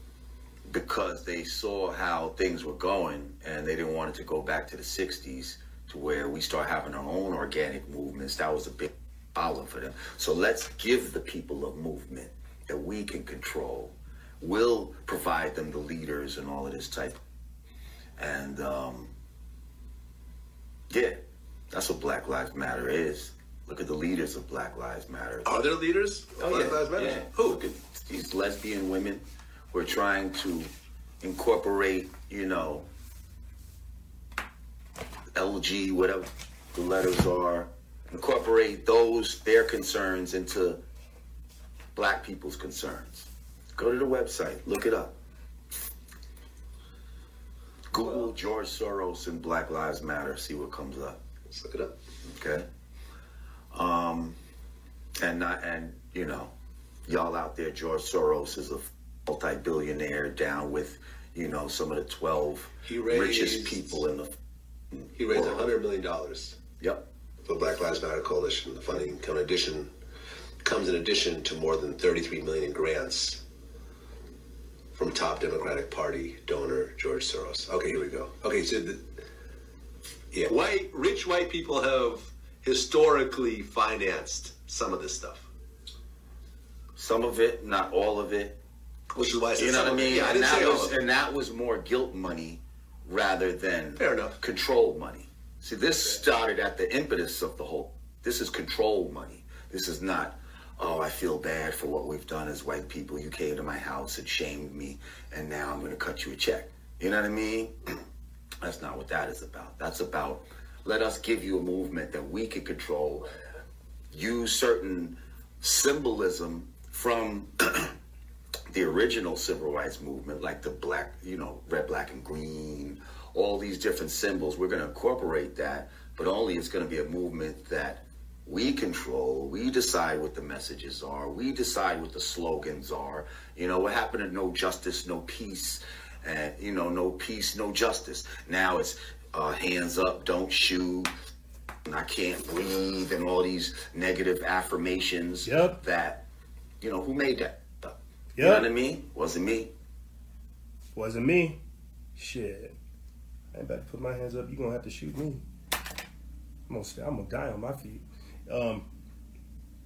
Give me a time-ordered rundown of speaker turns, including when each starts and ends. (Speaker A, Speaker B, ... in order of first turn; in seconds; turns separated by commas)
Speaker A: 0.7-17.2, Speaker A: 18.2-19.1, Speaker A: 20.9-25.5, Speaker B: 25.4-27.6, Speaker A: 26.4-32.9, Speaker A: 35.3-40.8, Speaker A: 41.9-45.2, Speaker A: 47.9-51.2, Speaker B: 51.5-51.9, Speaker A: 52.2-52.7, Speaker A: 53.7-54.4, Speaker A: 55.2-56.5, Speaker A: 57.0-64.4, Speaker B: 62.8-64.0, Speaker A: 64.9-65.7, Speaker B: 65.1-66.6, Speaker A: 66.8-67.1, Speaker B: 67.4-69.9, Speaker B: 70.6-73.4, Speaker B: 74.9-79.0, Speaker B: 80.3-85.5, Speaker A: 86.9-88.6, Speaker B: 89.1-91.0, Speaker A: 89.5-107.9, Speaker B: 94.0-94.4, Speaker A: 108.6-113.3, Speaker A: 114.1-117.9, Speaker A: 118.7-141.1, Speaker A: 141.8-146.3, Speaker C: 145.4-145.8, Speaker A: 146.8-149.7, Speaker C: 148.3-148.7, Speaker C: 150.9-151.6, Speaker C: 152.2-152.7, Speaker C: 153.5-155.4, Speaker C: 156.7-158.9